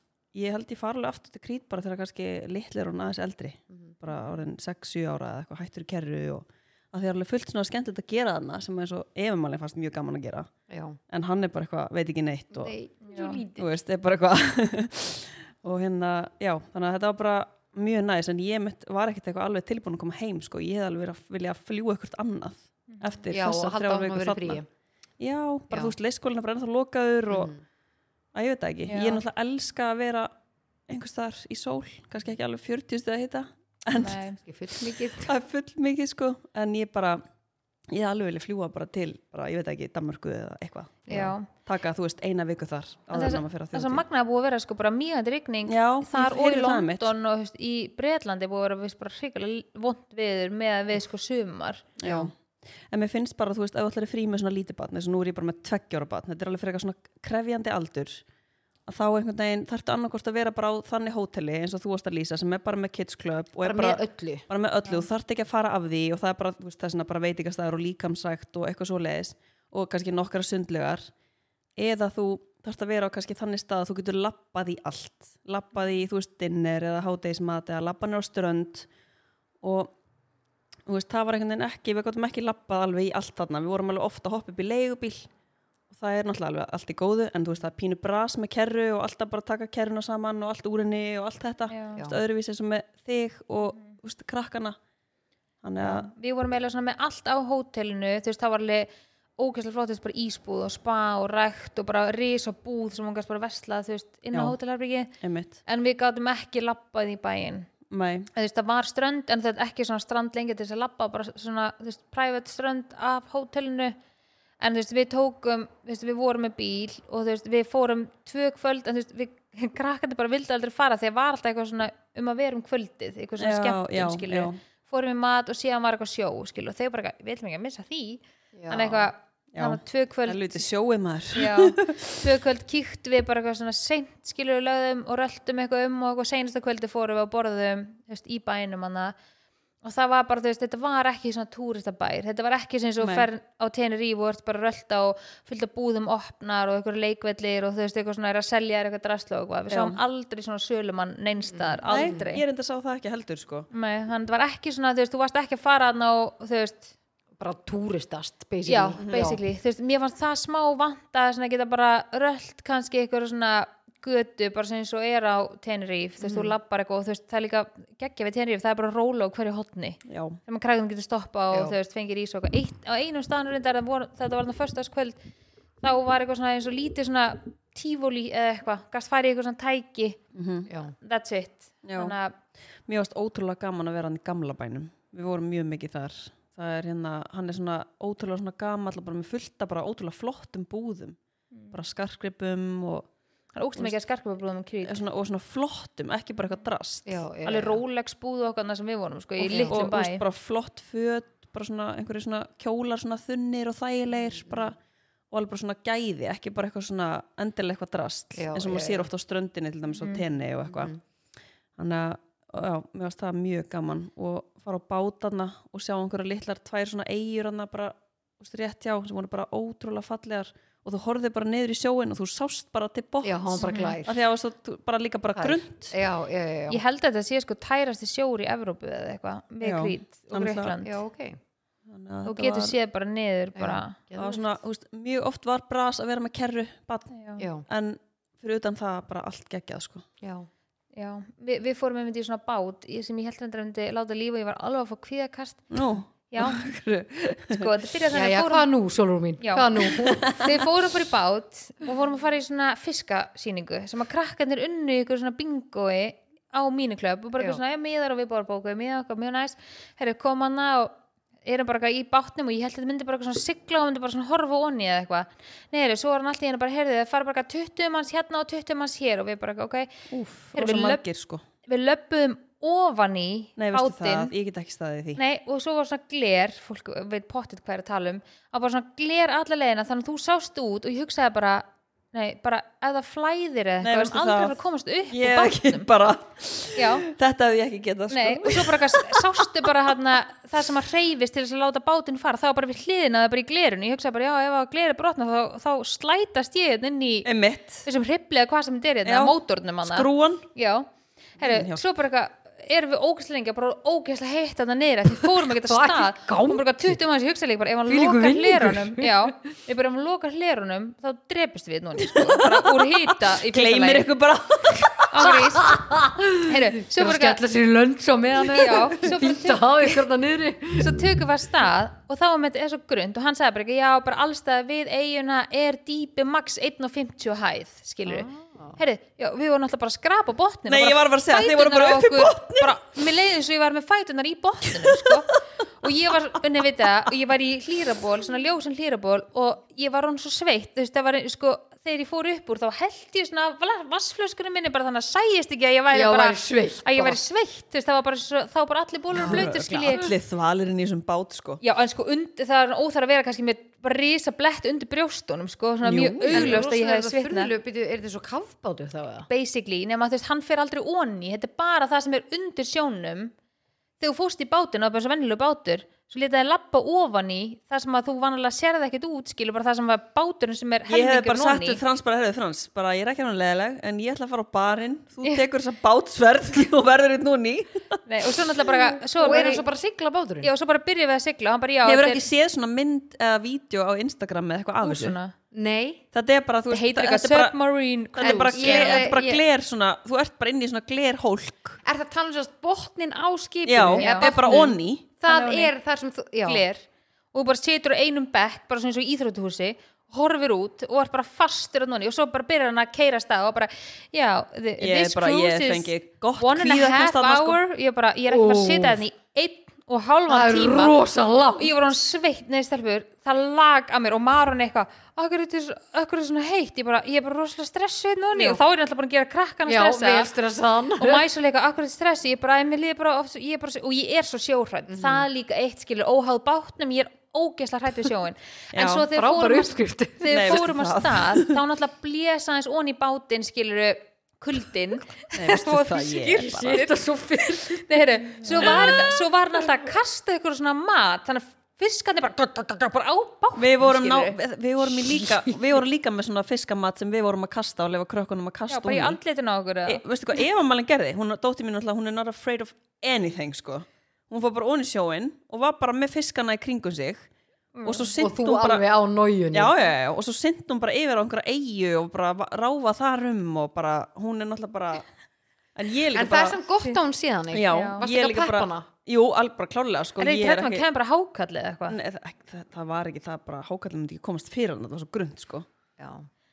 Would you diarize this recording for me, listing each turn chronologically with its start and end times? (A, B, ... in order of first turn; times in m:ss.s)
0:00.3-0:10.5 A
0:03.7-0:04.0 B
0:10.7-0:11.0 B
0:11.1-0:12.7 A
0:12.5-0:13.7 B
0:13.0-0:13.4 C
0:13.6-0:24.6 A
0:22.9-0:23.2 C
0:23.3-0:24.6 B
0:25.2-0:27.5 A
0:27.3-0:27.6 B
0:28.3-0:30.3 A
0:28.9-0:29.2 C
0:30.9-0:34.2 A
0:33.9-0:34.4 C
0:34.4-0:35.3 B
0:35.2-0:37.2 A
0:37.9-0:44.0 A
0:41.1-0:41.3 B
0:41.1-0:41.5 C
0:43.1-0:51.9 C
0:45.6-0:47.1 A
0:52.0-0:52.3 A
0:52.0-0:52.3 B
0:52.9-0:58.2 A
0:58.9-1:11.1 A
1:03.6-1:04.4 B
1:11.8-1:18.9 A
1:19.6-1:19.9 A
1:20.8-1:25.3 A
1:25.9-1:34.8 A
1:31.7-1:32.0 C
1:35.6-1:36.1 A
1:35.8-1:45.1 C
1:45.2-1:45.6 A
1:45.6-1:47.7 C
1:47.9-1:48.3 A
1:48.3-1:54.0 C
1:54.6-2:10.7 C
2:03.4-2:04.6 A
2:08.5-2:09.1 B
2:09.5-2:12.2 A
2:11.3-2:19.1 C
2:19.8-2:32.4 C
2:23.0-2:23.3 A
2:29.7-2:30.0 A
2:31.5-2:32.2 B
2:31.8-2:33.7 A
2:33.7-2:36.9 C
2:37.4-2:39.4 B
2:38.6-2:55.2 C
2:46.2-2:46.5 B
2:50.0-2:50.4 A
2:55.8-3:00.2 C
3:00.3-3:00.7 A
3:00.7-3:01.0 B
3:01.0-3:02.3 C
3:01.8-3:02.1 A
3:02.8-3:11.2 A
3:11.7-3:13.1 A
3:13.5-3:15.0 C
3:14.8-3:17.2 A
3:17.0-3:17.8 B
3:17.4-3:20.2 C
3:19.4-3:24.8 A
3:19.5-3:19.8 B
3:24.4-3:24.7 B
3:25.3-3:30.9 A
3:28.4-3:29.1 B
3:30.7-3:31.0 B
3:31.8-3:45.9 A
3:43.2-3:44.2 B
3:43.6-3:44.0 C
3:45.3-3:46.8 B
3:46.7-3:51.0 C
3:49.6-3:50.7 A
3:50.8-3:51.4 B
3:51.9-3:52.7 A
3:52.2-3:54.0 C
3:53.6-3:54.4 B
3:54.2-3:57.1 A
3:57.1-3:57.4 C
3:57.4-3:57.6 B
3:57.7-4:00.0 A
4:00.2-4:00.5 B
4:00.9-4:05.7 C
4:05.7-4:07.7 A
4:06.3-4:06.6 C
4:07.5-4:08.7 C
4:08.1-4:10.4 B
4:09.4-4:29.9 C
4:10.2-4:10.6 A
4:30.1-4:31.4 A
4:30.5-4:31.0 C
4:31.6-4:34.3 C
4:33.6-4:35.2 A
4:35.2-4:45.9 C
4:43.8-4:44.6 A
4:45.1-4:49.7 A
4:46.7-4:47.1 C
4:48.1-4:57.3 C
4:57.2-4:57.8 A
4:57.8-5:00.9 C
4:59.0-5:00.5 A
5:01.4-5:14.0 C
5:01.4-5:01.8 A
5:05.2-5:07.0 B
5:07.9-5:09.3 B
5:12.0-5:15.3 A
5:15.1-5:15.8 C
5:15.2-5:21.0 B
5:16.4-5:17.4 C
5:18.5-5:20.0 C
5:20.8-5:50.1 C
5:28.0-5:28.8 B
5:30.7-5:32.8 A
5:34.8-5:35.2 A
5:35.8-5:36.4 A
5:45.9-5:47.2 B
5:49.2-5:50.0 B
5:49.2-5:51.6 A
5:51.6-5:57.5 C
5:55.8-5:56.6 A
5:56.3-5:59.3 B
5:59.3-6:03.3 C
6:04.0-6:11.8 C
6:10.9-6:18.3 A
6:18.0-6:19.6 C
6:19.2-6:20.5 B
6:20.4-6:22.2 C
6:21.8-6:25.2 A
6:24.8-6:25.3 C
6:25.5-6:26.0 B
6:26.1-6:27.6 A
6:26.7-6:29.4 C
6:28.1-6:31.8 A
6:28.2-6:29.2 B
6:31.8-6:36.6 B
6:33.6-6:35.0 A
6:33.9-6:34.7 C
6:35.3-6:35.7 C
6:36.4-6:51.0 C
6:44.8-6:47.6 A
6:48.3-6:49.0 B
6:50.3-6:51.7 B
6:51.6-7:00.3 C
6:58.3-6:58.6 B
6:59.7-7:01.2 B
7:01.0-7:24.4 C
7:04.9-7:05.2 B
7:08.7-7:09.1 A
7:09.1-7:10.6 B
7:10.3-7:11.6 A
7:15.3-7:16.8 A
7:16.3-7:17.9 B
7:18.4-7:18.9 A
7:18.5-7:19.2 B
7:23.5-7:29.2 A
7:25.1-7:25.6 B
7:28.7-7:30.0 C
7:29.8-7:37.3 A
7:37.7-7:38.1 C
7:37.8-7:38.8 A
7:38.2-7:39.7 B
7:39.5-7:45.1 A
7:45.7-7:46.6 A
7:46.1-7:48.8 B
7:47.5-7:50.8 A
7:47.7-7:48.0 C
7:50.2-7:52.0 C
7:51.9-7:55.6 A
7:56.0-7:56.3 B